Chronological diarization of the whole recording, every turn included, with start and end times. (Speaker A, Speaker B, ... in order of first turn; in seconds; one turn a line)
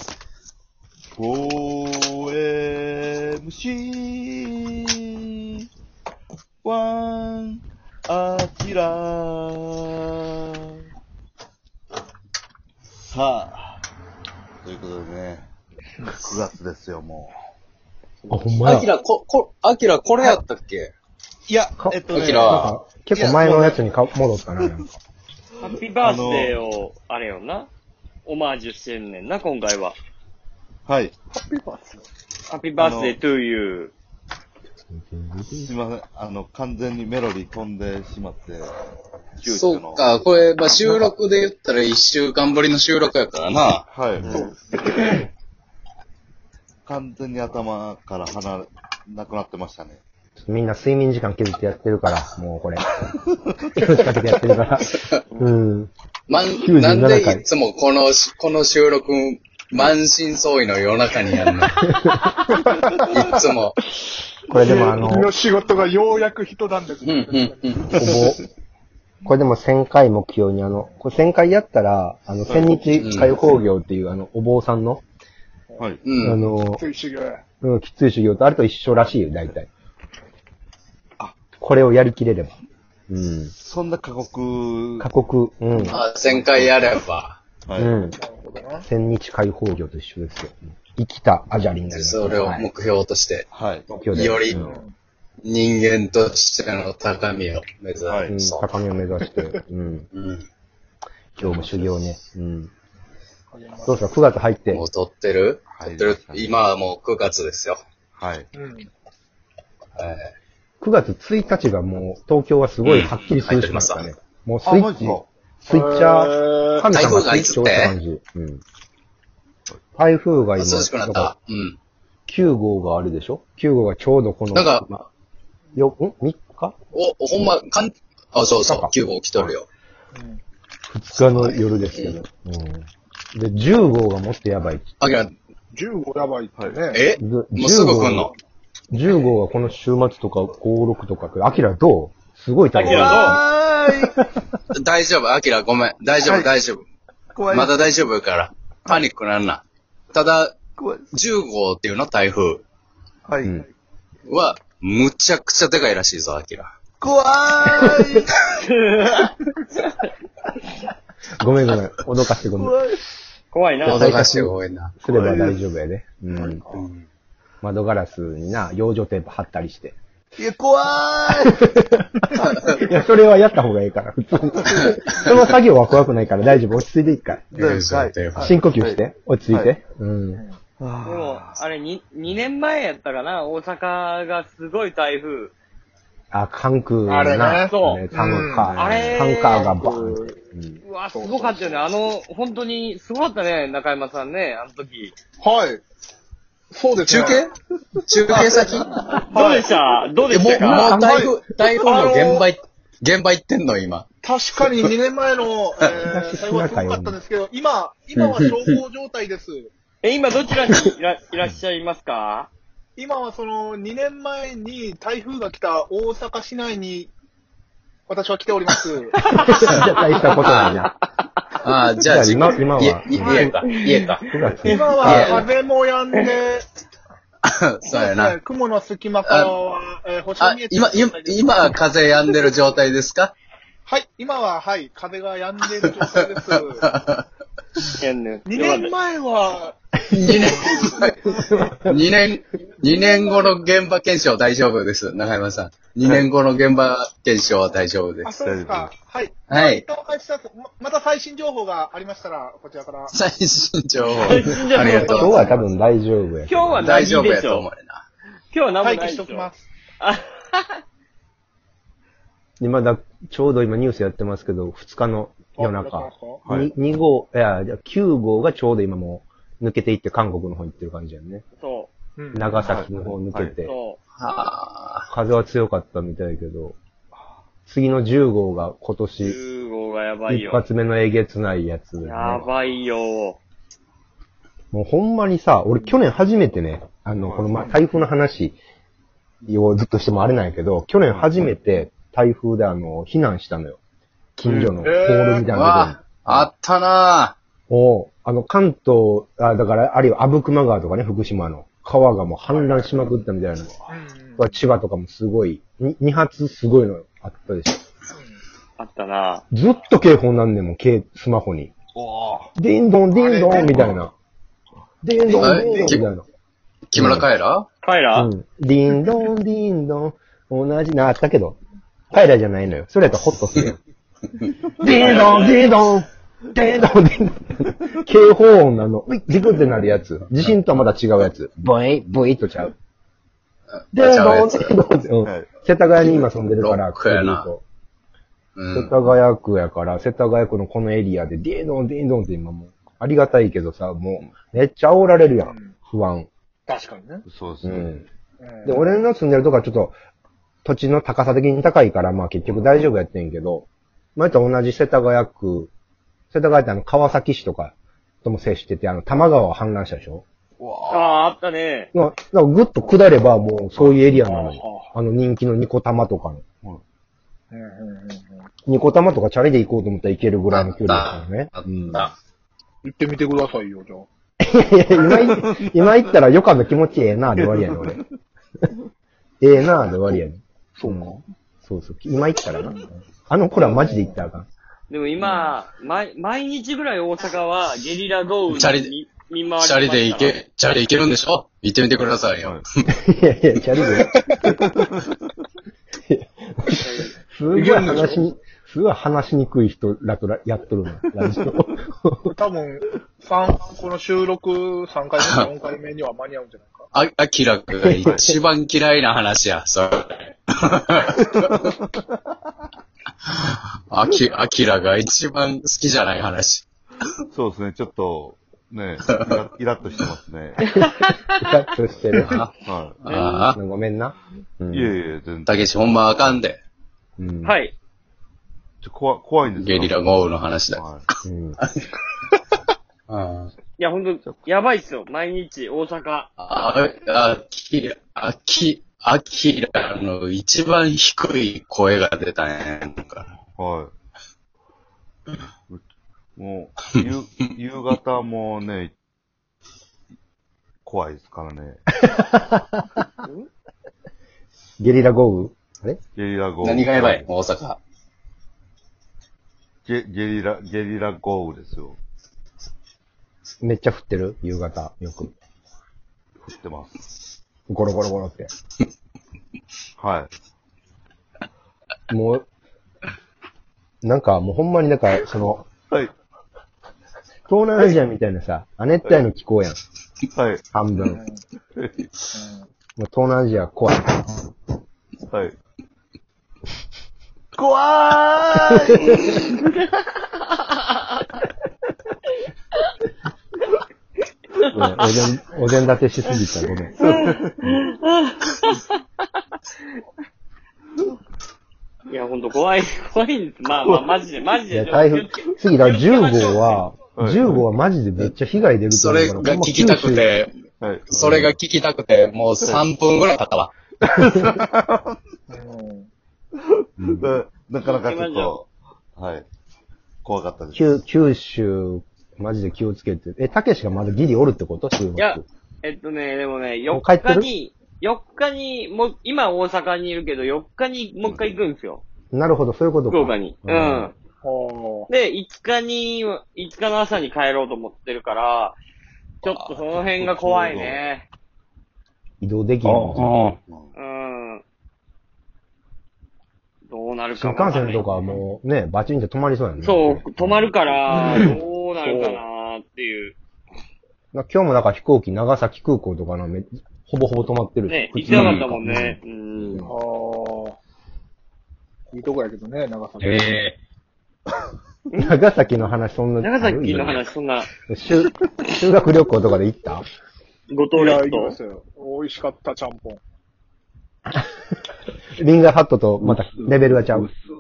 Speaker A: 1.1-5.6
Speaker A: 6.6-10.7
Speaker A: 12.9-13.8
Speaker A: 14.6-15.5
Speaker A: 16.2-17.3
Speaker B: 18.2-18.6
Speaker C: 18.3-18.9
Speaker D: 18.6-20.9
Speaker A: 21.5-23.9
Speaker C: 21.8-25.0
Speaker D: 22.1-22.7
Speaker E: 25.6-27.7
Speaker A: 25.6-26.6
Speaker E: 28.2-30.0
Speaker A: 30.9-31.1
Speaker B: 31.3-32.0
Speaker E: 32.5-33.9
Speaker A: 32.8-33.2
Speaker C: 34.9-35.7
Speaker A: 35.5-38.7
Speaker A: 39.4-40.1
Speaker D: 39.5-43.8
Speaker C: 40.8-41.1
Speaker A: 43.9-44.4
Speaker D: 44.9-45.2
Speaker A: 46.9-50.0
Speaker C: 50.4-52.9
Speaker C: 53.8-55.9
Speaker D: 56.3-61.9
Speaker C: 56.6-57.4
Speaker C: 61.8-62.4
Speaker B: 62.5-63.1
Speaker D: 63.1-63.8
Speaker C: 64.5-65.3
Speaker B: 64.5-67.7
Speaker D: 67.0-68.3
Speaker C: 68.0-68.4
Speaker C: 69.2-75.0
Speaker A: 72.5-72.7
Speaker D: 73.0-73.4
Speaker B: 75.7-76.0
Speaker A: 75.8-76.0
Speaker D: 76.0-76.4
Speaker C: 76.2-76.8
Speaker B: 76.8-77.4
Speaker C: 77.6-79.7
Speaker C: 81.6-82.6
Speaker C: 83.1-83.5
Speaker A: 83.6-85.1
Speaker C: 85.0-86.0
Speaker D: 85.9-87.4
Speaker A: 86.1-87.0
Speaker A: 87.7-88.0
Speaker C: 87.8-88.2
Speaker B: 88.2-88.9
Speaker C: 88.8-92.7
Speaker D: 91.9-93.5
Speaker A: 93.5-93.9
Speaker C: 93.9-94.6
Speaker D: 94.1-94.6
Speaker A: 94.5-94.8
Speaker B: 94.5-94.9
Speaker D: 95.4-98.7
Speaker A: 98.0-98.3
Speaker C: 98.3-100.1
Speaker D: 100.1-100.5
Speaker C: 101.4-102.7
Speaker A: 101.4-101.9
Speaker B: 103.5-104.2
Speaker C: 103.9-104.8
Speaker D: 104.7-107.8
Speaker A: 105.7-106.6
Speaker A: 108.2-108.5
Speaker B: 108.5-108.9
Speaker D: 110.0-110.3
Speaker C: 110.8-118.6
Speaker D: 112.8-114.1
Speaker A: 114.6-115.3
Speaker B: 115.7-116.9
Speaker D: 116.9-117.9
Speaker C: 120.0-121.3
Speaker D: 120.6-121.8
Speaker C: 122.3-125.0
Speaker D: 124.5-124.9
Speaker C: 125.8-126.8
Speaker D: 126.9-129.7
Speaker C: 128.6-129.6
Speaker B: 130.1-130.4
Speaker C: 130.9-135.0
Speaker D: 131.2-132.2
Speaker D: 135.0-135.3
Speaker B: 135.7-137.0
Speaker D: 136.9-138.3
Speaker C: 137.2-138.3
Speaker C: 138.9-143.4
Speaker E: 142.8-143.4
Speaker A: 142.8-144.2
Speaker D: 144.8-146.8
Speaker A: 146.2-146.5
Speaker A: 147.3-147.8
Speaker D: 147.5-150.6
Speaker A: 150.8-151.1
Speaker D: 151.1-152.6
Speaker A: 153.2-153.7
Speaker D: 154.3-156.7
Speaker A: 157.0-158.3
Speaker E: 158.6-159.3
Speaker C: 161.4-162.8
Speaker A: 162.6-163.0
Speaker E: 163.5-164.1
Speaker C: 163.8-166.7
Speaker D: 163.8-165.5
Speaker B: 166.3-166.8
Speaker D: 166.7-167.0
Speaker C: 167.6-170.0
Speaker A: 170.3-171.7
Speaker C: 171.7-177.5
Speaker D: 177.5-178.5
Speaker A: 177.5-179.7
Speaker C: 178.4-180.4
Speaker B: 180.3-180.6
Speaker A: 180.8-181.6
Speaker E: 181.1-185.6
Speaker C: 186.3-190.8
Speaker B: 187.1-188.7
Speaker E: 187.7-188.1
Speaker E: 188.7-189.7
Speaker B: 189.4-190.4
Speaker E: 190.8-195.2
Speaker B: 191.1-191.9
Speaker B: 195.4-195.8
Speaker B: 196.7-197.5
Speaker D: 197.0-197.5
Speaker D: 198.1-199.2
Speaker B: 198.3-199.7
Speaker E: 199.3-201.0
Speaker D: 200.3-204.1
Speaker B: 200.8-202.5
Speaker B: 204.2-209.7
Speaker C: 206.0-207.2
Speaker D: 208.2-208.8
Speaker E: 210.0-212.5
Speaker B: 213.0-217.1
Speaker B: 218.1-219.8
Speaker C: 219.2-220.9
Speaker E: 220.2-220.8
Speaker D: 220.4-220.8
Speaker D: 221.6-224.3
Speaker C: 222.0-225.5
Speaker B: 223.2-223.7
Speaker E: 223.7-224.1
Speaker B: 224.6-226.7
Speaker D: 225.0-225.5
Speaker D: 227.5-228.4
Speaker B: 227.9-231.6
Speaker D: 229.3-229.5
Speaker D: 230.4-233.3
Speaker B: 233.8-236.9
Speaker D: 235.9-237.2
Speaker E: 238.0-238.9
Speaker B: 238.5-241.0
Speaker D: 240.1-248.3
Speaker C: 241.3-242.0
Speaker A: 246.0-246.3
Speaker B: 248.2-253.1
Speaker A: 248.4-248.9
Speaker D: 249.5-249.8
Speaker D: 253.1-255.5
Speaker E: 254.2-255.6
Speaker C: 254.8-256.9
Speaker E: 256.5-257.7
Speaker D: 256.8-258.1
Speaker E: 258.5-259.5
Speaker B: 258.8-259.6
Speaker E: 260.0-260.7
Speaker C: 262.6-271.4
Speaker B: 265.6-266.4
Speaker A: 266.4-266.7
Speaker E: 271.6-271.9
Speaker B: 272.2-272.6
Speaker C: 272.3-273.7
Speaker A: 272.6-273.6
Speaker E: 273.6-274.0
Speaker D: 274.2-275.1
Speaker C: 275.1-276.8
Speaker C: 277.7-279.4
Speaker E: 279.2-280.6
Speaker C: 280.3-282.5
Speaker E: 282.0-283.4
Speaker C: 284.7-288.6
Speaker A: 287.2-287.7
Speaker C: 289.4-293.8
Speaker A: 291.1-291.4
Speaker C: 294.4-296.5
Speaker A: 294.4-294.8
Speaker B: 294.8-295.5
Speaker D: 295.5-297.4
Speaker C: 297.7-303.7
Speaker B: 302.5-303.1
Speaker B: 303.9-304.6
Speaker C: 304.4-307.8
Speaker B: 308.1-308.4
Speaker E: 308.8-309.4
Speaker C: 309.5-311.7
Speaker A: 311.9-312.5
Speaker C: 312.6-314.1
Speaker B: 313.1-313.8
Speaker A: 313.7-314.0
Speaker C: 315.0-316.2
Speaker A: 315.3-316.0
Speaker D: 315.4-316.1
Speaker D: 316.9-317.7
Speaker C: 316.9-317.3
Speaker E: 317.8-318.3
Speaker C: 318.2-321.6
Speaker C: 322.1-323.8
Speaker C: 324.8-332.7
Speaker A: 324.8-325.3
Speaker E: 324.8-325.6
Speaker D: 333.9-334.7
Speaker C: 333.9-337.6
Speaker A: 335.2-335.5
Speaker D: 336.6-337.5
Speaker D: 338.6-338.9
Speaker C: 338.7-346.3
Speaker B: 345.4-345.7
Speaker B: 346.7-347.2
Speaker A: 347.3-348.0
Speaker C: 347.6-348.1
Speaker B: 348.4-349.0
Speaker C: 348.6-350.0
Speaker C: 350.6-355.7
Speaker C: 356.3-360.2
Speaker A: 360.6-361.2
Speaker E: 360.9-361.9
Speaker C: 361.9-366.4
Speaker A: 363.8-364.1
Speaker B: 364.2-364.9
Speaker B: 367.5-368.5
Speaker C: 368.7-372.1
Speaker D: 370.5-372.1
Speaker B: 372.8-374.1
Speaker C: 374.4-378.0
Speaker A: 375.1-376.0
Speaker A: 377.4-378.0
Speaker C: 379.4-384.5
Speaker B: 380.8-381.2
Speaker B: 383.6-384.1
Speaker E: 384.9-390.4
Speaker D: 388.5-388.9
Speaker D: 389.6-392.6
Speaker C: 392.9-394.6
Speaker B: 393.8-394.5
Speaker A: 394.5-395.0
Speaker C: 396.1-402.3
Speaker B: 396.8-398.2
Speaker B: 402.3-406.9
Speaker D: 405.2-405.5
Speaker D: 406.9-411.6
Speaker C: 407.8-408.3
Speaker D: 413.3-416.6
Speaker A: 417.3-420.6
Speaker D: 419.1-419.4
Speaker C: 421.4-422.4
Speaker D: 422.2-422.5
Speaker A: 422.6-423.0
Speaker D: 423.0-423.6
Speaker E: 423.1-423.5
Speaker C: 423.5-424.9
Speaker A: 424.7-426.4
Speaker D: 425.5-426.6
Speaker C: 427.2-427.6
Speaker E: 427.4-427.7
Speaker A: 428.8-431.0
Speaker D: 429.5-430.9
Speaker C: 431.2-431.6
Speaker D: 433.1-433.5
Speaker E: 433.8-436.3
Speaker D: 436.4-443.3
Speaker A: 443.6-443.9
Speaker A: 446.4-448.9
Speaker A: 450.8-451.8
Speaker C: 452.1-452.9
Speaker C: 454.8-456.0
Speaker A: 456.1-457.3
Speaker D: 456.6-457.8
Speaker A: 459.9-462.0
Speaker C: 463.6-465.3
Speaker A: 466.4-467.0
Speaker C: 467.7-468.5
Speaker A: 470.0-470.3
Speaker C: 472.1-472.5
Speaker C: 474.0-475.7
Speaker C: 477.5-479.8
Speaker A: 480.4-480.6
Speaker C: 480.7-481.2
Speaker B: 480.9-481.4
Speaker B: 482.3-482.7
Speaker C: 483.0-484.3
Speaker A: 485.3-485.6
Speaker A: 487.6-489.2
Speaker E: 494.6-495.1
Speaker C: 494.7-496.9
Speaker A: 497.0-497.8
Speaker E: 497.0-498.9
Speaker E: 502.1-505.5
Speaker A: 503.8-504.1
Speaker C: 504.7-510.3
Speaker A: 507.2-507.5
Speaker D: 508.9-510.5
Speaker A: 510.8-511.4
Speaker D: 511.1-513.7
Speaker C: 511.2-511.5
Speaker A: 514.5-515.2
Speaker B: 515.5-516.1
Speaker A: 517.0-519.5
Speaker E: 517.8-518.6
Speaker A: 520.2-521.0
Speaker C: 520.8-525.5
Speaker E: 525.2-532.0
Speaker C: 526.9-527.5
Speaker C: 532.3-534.1
Speaker E: 533.1-534.1
Speaker B: 534.4-535.1
Speaker E: 535.1-538.8
Speaker E: 539.4-541.3
Speaker A: 539.4-541.0
Speaker C: 542.4-543.3
Speaker D: 542.8-543.6
Speaker A: 543.7-543.9
Speaker E: 544.0-544.6
Speaker E: 546.9-548.0
Speaker C: 547.3-550.9
Speaker E: 549.8-553.4
Speaker B: 552.1-552.4
Speaker C: 554.3-560.0
Speaker E: 557.9-559.9
Speaker D: 558.3-558.6
Speaker B: 559.9-560.8
Speaker B: 562.1-563.5
Speaker D: 563.2-563.8
Speaker C: 565.2-567.3
Speaker E: 566.4-567.7
Speaker C: 567.9-570.0
Speaker E: 570.7-571.6
Speaker B: 570.9-573.2
Speaker C: 575.4-577.3